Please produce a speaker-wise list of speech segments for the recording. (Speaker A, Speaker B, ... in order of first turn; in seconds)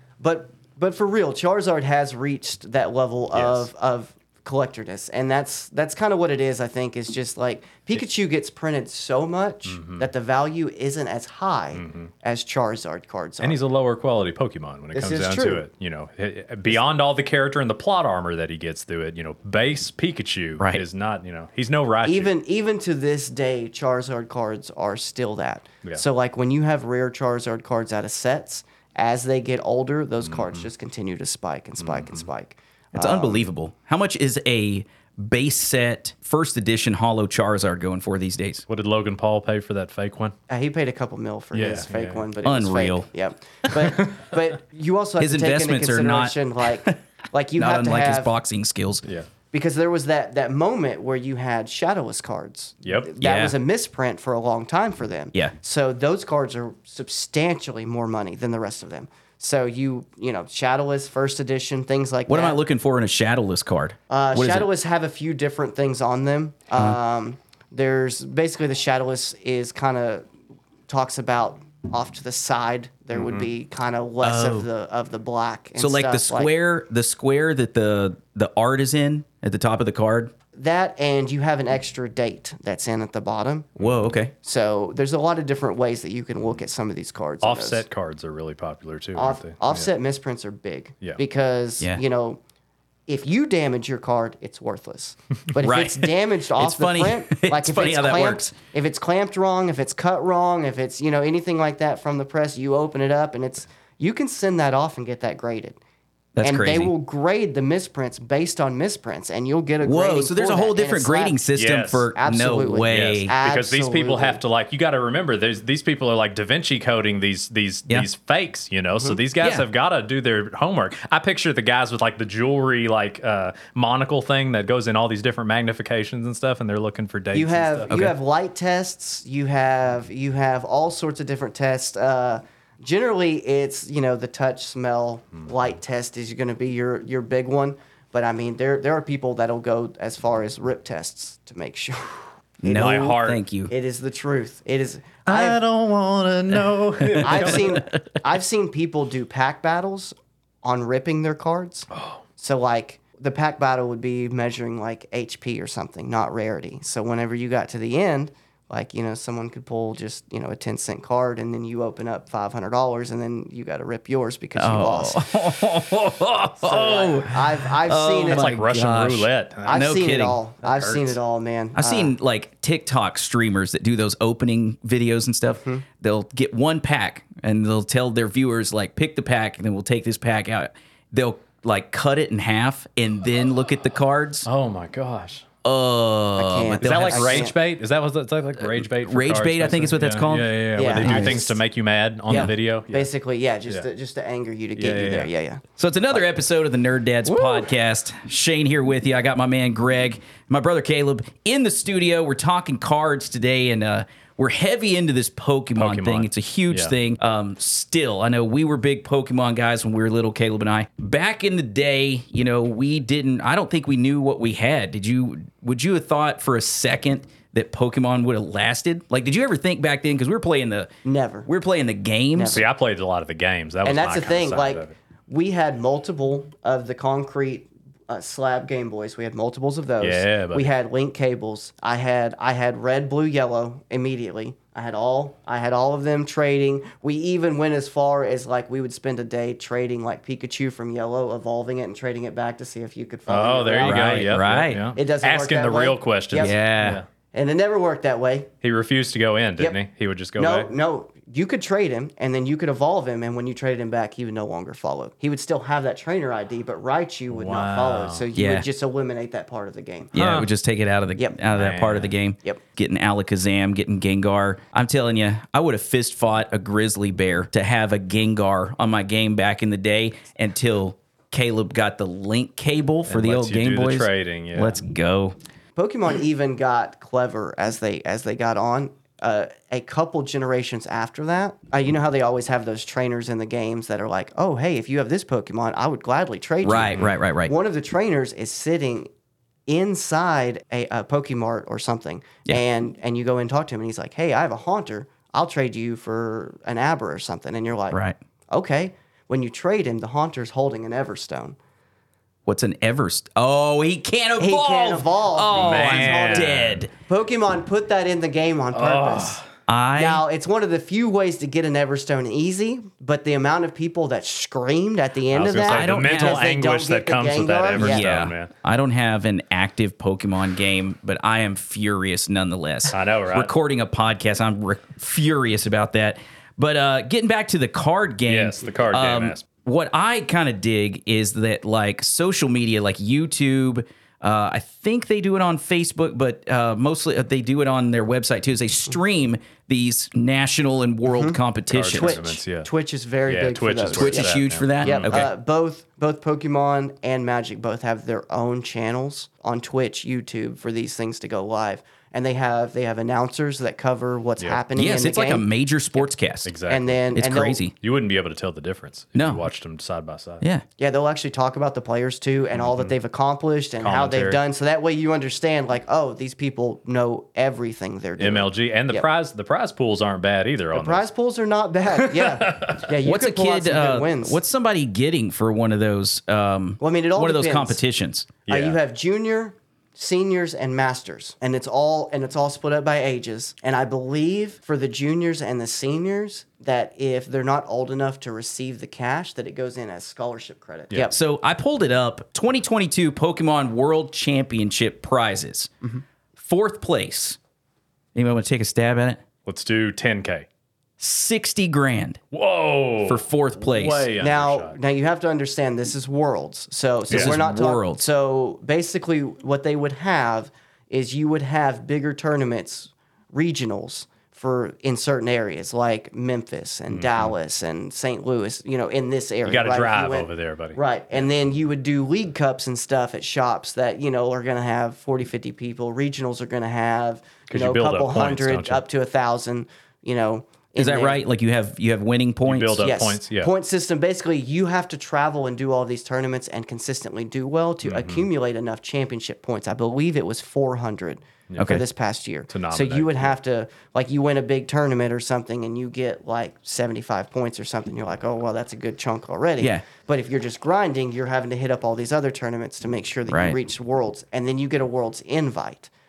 Speaker A: 0.2-13.6, 14.9-15.6, 22.0-33.5, 40.5-48.3, 49.5-62.6, 64.1-70.3, 70.9-76.5, 80.5-83.8, 84.4-87.8, 89.2-92.4, 93.1-105.8, 106.4-111.4, 112.2-114.4, 127.3-145.6, 147.2-165.3, 166.6-168.5, 169.7-172.2, 186.4-187.6, 190.8-191.6, 192.3-195.6, 221.1-221.5, 222.3-222.7, 223.8-246.6, 247.3-248.5, 250.4-260.1, 275.8-289.1, 289.7-298.0, 298.5-301.6, 304.4-309.4, 310.0-318.1, 341.1-341.4, 342.0-356.1, 356.7-357.6, 360.8-369.1, 370.7-374.4, 376.8-377.8, 378.5-391.1, 404.2-431.2, 432.8-455.9
Speaker B: 3.3-3.7, 9.7-10.1, 11.8-12.1, 13.4-22.3, 30.3-30.7, 31.8-32.3, 38.7-40.4, 41.5-42.2, 52.8-53.1, 73.1-73.5, 87.4-89.9, 111.6-112.1, 112.9-128.0, 142.7-143.4, 145.3-147.8, 151.9-152.2, 168.3-171.2, 184.5-185.4, 186.8-193.1, 194.8-195.3, 197.3-197.7, 205.8-206.9, 222.5-224.9, 230.0-230.7, 243.3-247.1, 248.6-250.7, 257.3-258.3, 260.1-260.5, 261.5-262.1, 273.1-274.8, 305.5-306.8, 308.7-309.5, 315.3-318.5, 322.9-323.5, 328.3-329.4, 341.7-342.7, 343.3-345.2, 356.4-357.1, 357.8-360.4, 362.6-362.9, 363.8-364.4, 368.2-371.1, 372.1-372.9, 378.5-378.8, 399.5-400.5, 402.3-404.8, 407.1-407.4, 416.9-417.3, 419.5-420.8, 427.5-428.8, 432.5-433.5, 437.8-438.3, 441.5-441.8, 442.5-443.3
Speaker C: 33.0-38.7, 42.4-43.1, 45.2-47.0, 47.6-49.1, 53.2-53.5, 62.3-64.7, 74.2-74.7, 75.8-80.3, 83.8-84.3, 95.6-98.5, 106.4-106.9, 109.8-113.3, 127.9-128.1, 142.6-143.7, 147.0-147.4, 164.6-170.4, 171.8-184.5, 185.6-187.5, 188.8-191.4, 195.8-220.9, 221.5-222.6, 243.8-244.8, 246.4-247.0, 258.4-258.6, 260.1-275.4, 286.6-287.5, 297.9-298.2, 302.5-306.9, 309.7-310.2, 315.7-316.4, 317.8-342.2, 343.9-345.3, 354.8-356.5, 357.1-357.7, 359.1-359.5, 373.0-378.3, 391.1-395.7, 396.4-397.4, 398.1-399.2, 401.0-402.2, 403.1-404.1, 407.1-408.0, 430.8-432.9, 441.6-441.8, 449.6-449.9, 453.3-453.6